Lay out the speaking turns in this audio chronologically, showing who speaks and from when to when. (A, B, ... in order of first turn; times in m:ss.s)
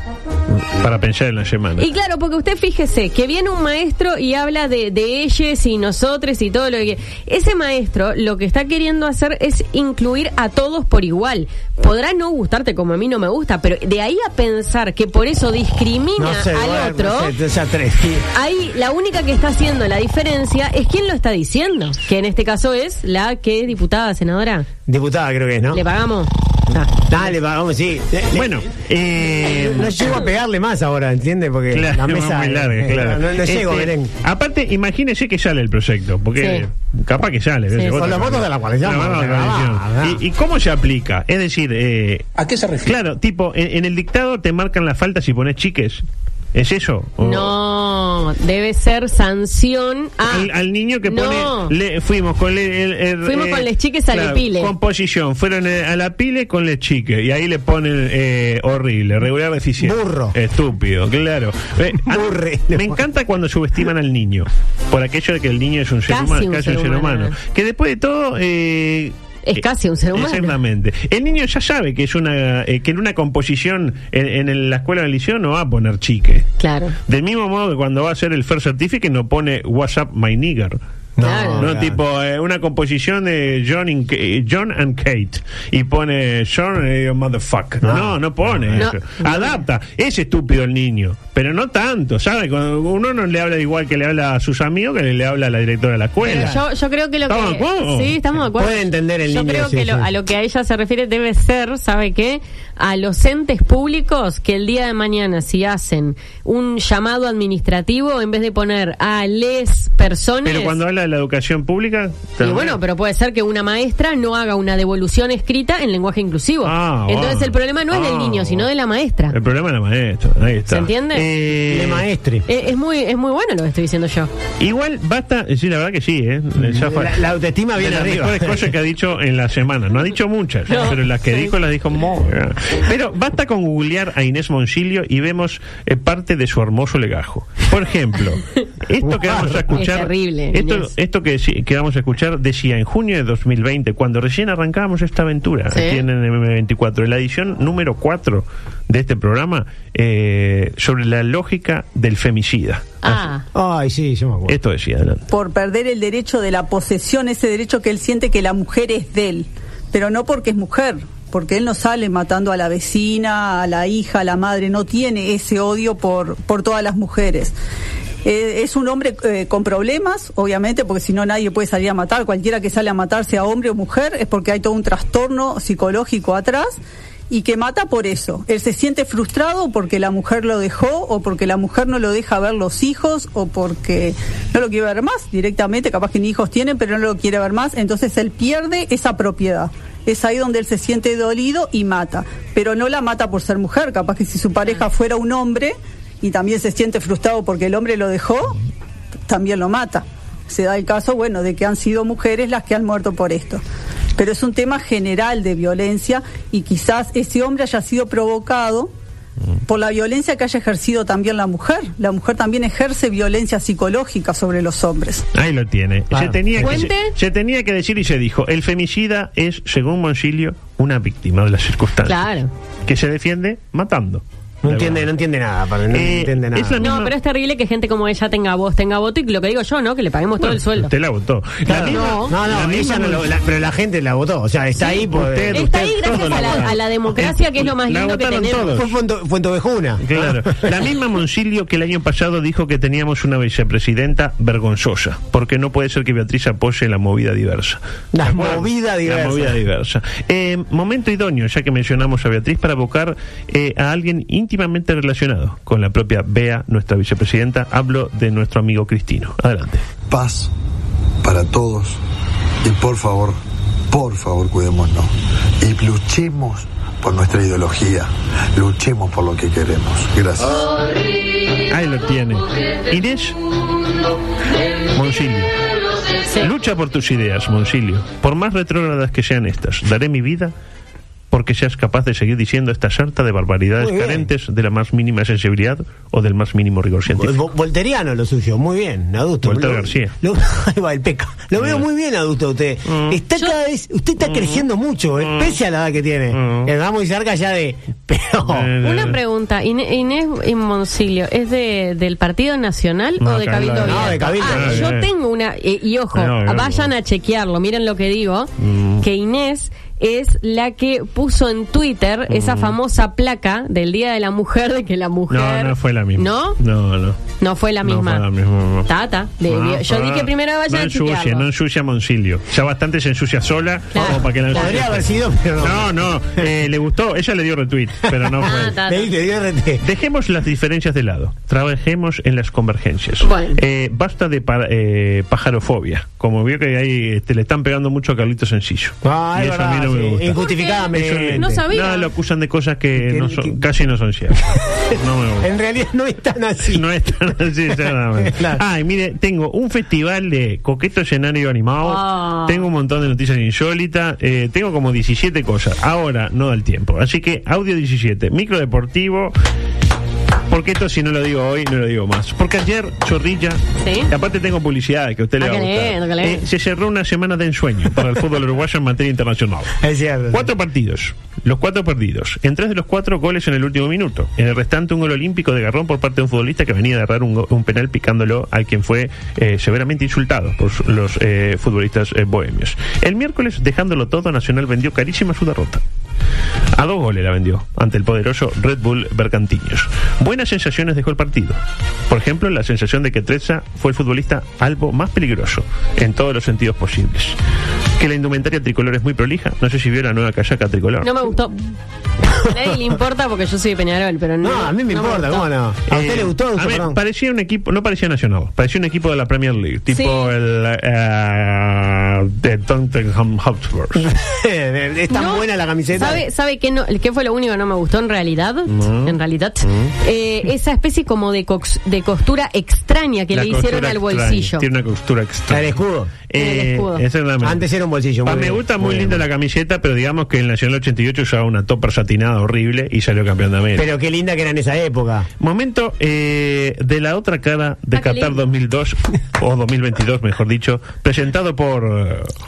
0:00.5-0:01.9 A
0:01.8-0:17.3 B
0:16.2-0:18.2 C
0:18.3-0:24.7 B
0:24.9-0:25.8 C
0:25.7-0:27.0 B
0:27.1-0:28.5 C
0:28.3-0:30.2 A
0:29.5-0:34.1 C
0:31.7-0:42.3 A
0:36.4-0:36.6 B
0:37.9-0:40.2 C
0:42.8-0:47.6 A
0:47.2-0:50.5 B
0:50.2-1:09.6 A
0:51.1-0:51.7 B
0:53.2-0:54.7 B
0:59.8-1:00.4 C
1:02.0-1:03.0 C
1:06.1-1:07.4 B
1:09.5-1:10.6 B
1:10.1-1:16.5 A
1:16.6-1:17.0 B
1:17.1-1:20.8 A
1:21.2-1:22.0 C
1:21.2-1:21.7 B
1:21.6-1:36.6 A
1:27.8-1:28.8 C
1:28.8-1:29.6 B
1:36.2-1:50.8 B
1:36.3-1:36.6 C
1:37.3-1:38.2 A
1:38.6-1:40.1 C
1:50.4-1:52.8 A
1:52.4-1:59.4 B
1:56.6-1:58.7 A
1:59.3-2:02.1 A
2:00.7-2:01.3 B
2:01.7-2:02.5 C
2:02.5-2:04.3 B
2:04.6-2:07.2 A
2:06.6-2:08.7 C
2:07.8-2:33.2 A
2:10.7-2:11.5 B
2:19.0-2:19.8 C
2:19.7-2:20.9 B
2:25.7-2:26.0 B
2:33.0-2:33.4 B
2:33.5-2:34.6 C
2:34.5-2:35.3 A
2:35.3-2:47.6 D
2:48.2-2:56.8 D
2:57.3-3:18.6 D
3:19.3-3:23.6 D
3:24.2-3:28.9 D
3:29.7-3:35.2 D
3:35.3-3:42.3 A
3:36.1-3:36.9 C
3:36.6-3:37.1 B
3:42.0-3:42.5 B
3:42.9-3:45.1 A
3:44.6-3:46.8 C
3:45.9-3:47.1 A
3:46.8-3:50.9 B
3:50.4-3:53.3 A
3:51.6-3:56.7 C
3:51.8-3:52.4 B
3:54.8-3:58.8 B
3:54.9-3:58.9 A
3:58.6-4:00.8 C
4:00.0-4:19.8 A
4:08.1-4:09.6 C
4:20.1-4:20.5 E
4:21.2-4:22.0 E
4:22.6-4:23.4 E
4:23.9-4:30.7 E
4:31.7-4:33.4 A
4:34.9-4:35.5 A
4:36.4-4:40.5 A
4:41.3-4:47.4 A
4:43.8-4:44.3 C
4:47.1-4:58.7 C
4:49.4-4:50.1 A
4:51.6-4:51.8 A
4:52.9-4:53.2 A
4:54.2-4:54.7 A
4:55.2-4:55.6 A
4:56.3-4:56.7 A
4:58.4-4:59.2 A
4:58.8-5:16.6 B
5:03.2-5:05.1 A
5:03.8-5:04.9 C
5:06.1-5:06.9 A
5:08.6-5:09.0 A
5:12.3-5:12.8 A
5:15.3-5:17.2 A
5:17.4-5:18.2 B
5:17.8-5:18.9 A
5:18.9-5:21.5 B
5:19.5-5:28.7 A
5:23.9-5:24.8 B
5:24.0-5:26.5 C
5:28.1-5:29.8 C
5:28.4-5:29.1 B
5:29.8-5:45.5 A
5:33.2-5:33.6 B
5:39.0-5:41.6 C
5:40.5-5:40.8 B
5:41.4-5:42.1 B
5:43.0-5:43.6 C
5:44.5-5:46.8 C
5:46.7-5:59.3 A
5:47.7-5:48.6 C
5:51.8-5:52.7 B
6:00.5-6:09.8 A
6:03.8-6:04.1 B
6:05.4-6:06.4 B
6:09.8-6:10.5 C
6:10.3-6:25.8 A
6:26.8-6:37.4 A
6:38.0-6:41.2 A
6:41.0-6:41.7 B
6:42.4-6:45.5 B
6:44.4-6:47.0 C
6:45.9-6:54.1 A
6:49.9-6:50.3 B
6:54.0-6:56.2 C
6:55.1-7:04.6 B
6:58.7-7:00.0 A
7:03.3-7:05.8 A
7:05.5-7:06.1 C
7:06.3-7:07.7 A
7:06.4-7:07.0 B
7:07.4-7:09.2 C
7:08.2-7:13.9 A
7:13.8-7:15.3 C
7:15.4-7:22.3 A
7:17.9-7:18.4 B